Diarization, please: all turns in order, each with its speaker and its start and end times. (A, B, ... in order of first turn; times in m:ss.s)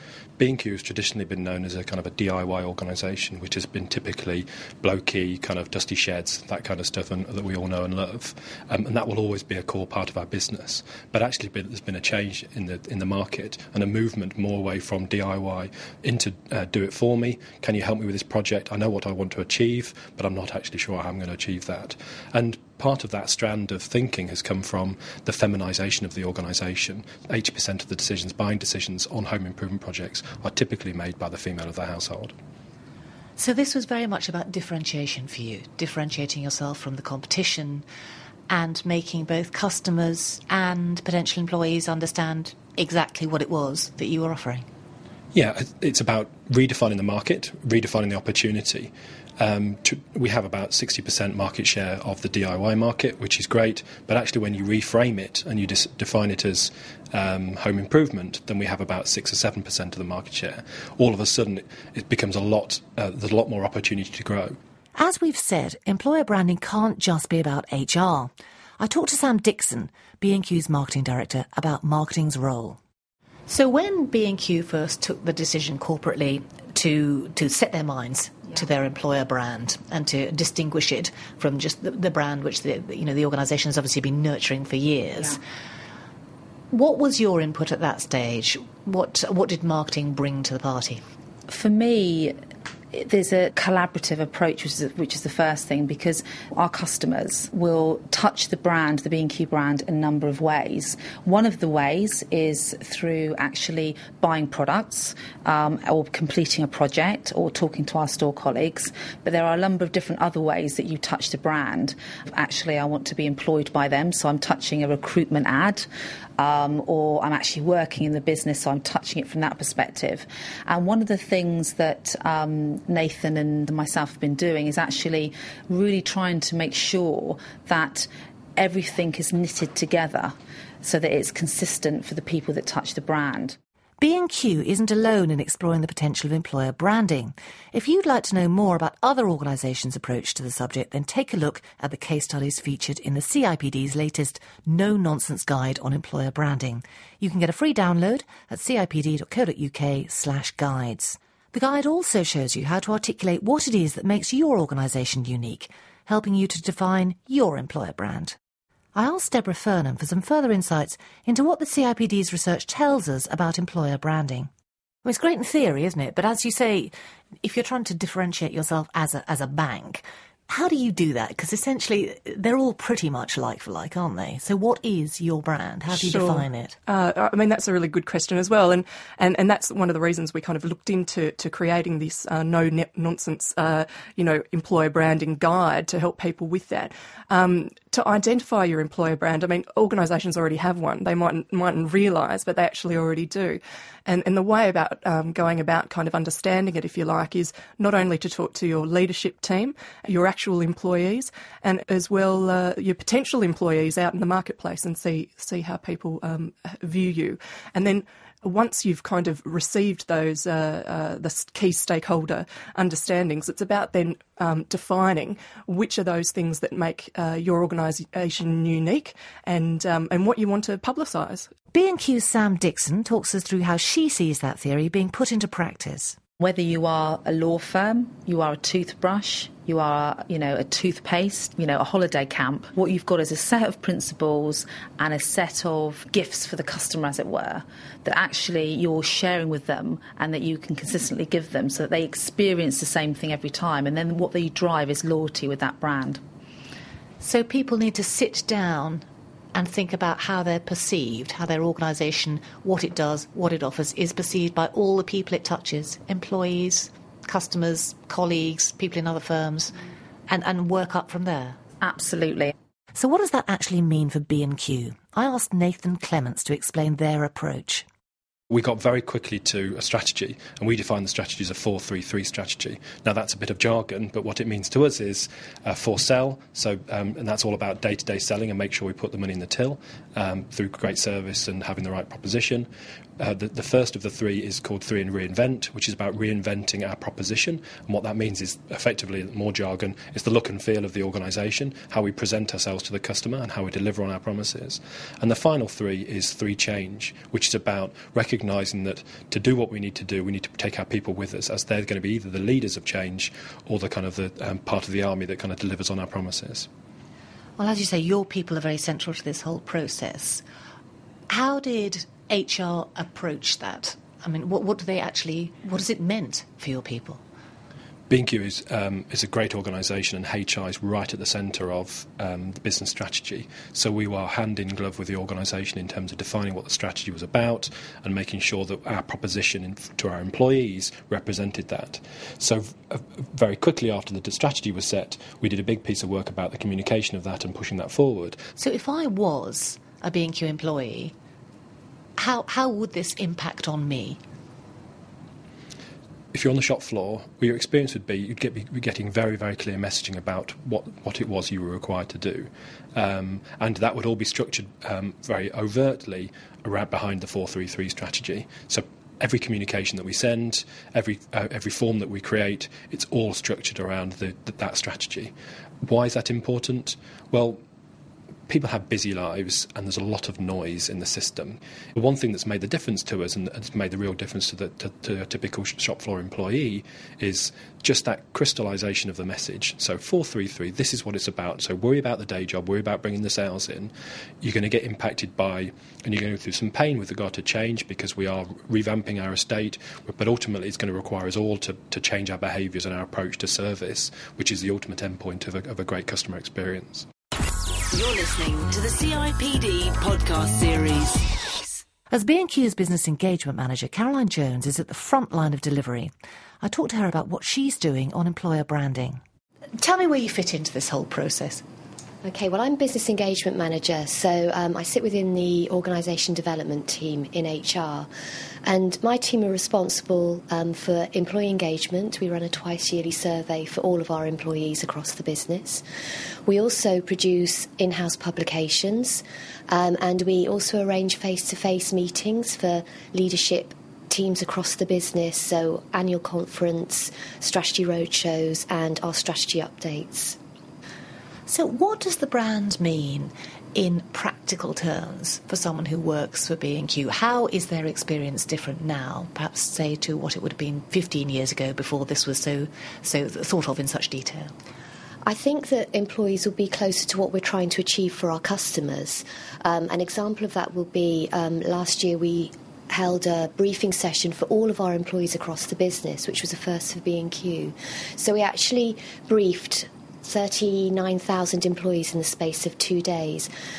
0:00.4-0:32.3 A
0:33.4-0:37.8 B
0:38.5-0:44.7 B
0:45.3-1:04.6 A
1:05.0-1:12.8 B
1:13.5-1:25.4 B
1:26.7-1:31.0 B
1:31.5-1:32.4 C
1:32.9-1:55.9 C
1:56.4-2:13.6 C
2:14.0-2:38.4 B
2:39.0-2:44.5 B
2:45.0-2:56.8 B
2:55.9-3:41.5 D
3:41.7-3:46.2 B
3:46.4-4:06.2 C
4:07.2-4:19.8 B
4:20.3-4:21.6 B
4:21.8-4:22.5 C
4:23.0-4:27.8 B
4:28.5-5:06.7 A
5:07.6-5:10.4 B
5:11.3-5:17.2 B
5:18.1-5:38.4 A
5:38.6-5:41.1 B
5:42.2-5:44.2 B
5:46.3-6:07.6 A
6:08.5-6:37.1 A
6:37.9-6:41.3 E
6:42.1-6:46.1 B
6:46.6-6:49.2 B
6:49.8-6:51.6 B
6:52.2-6:58.1 F
6:58.6-7:05.8 F
7:06.5-7:20.4 F
7:21.5-7:34.5 B
7:35.2-7:53.5 F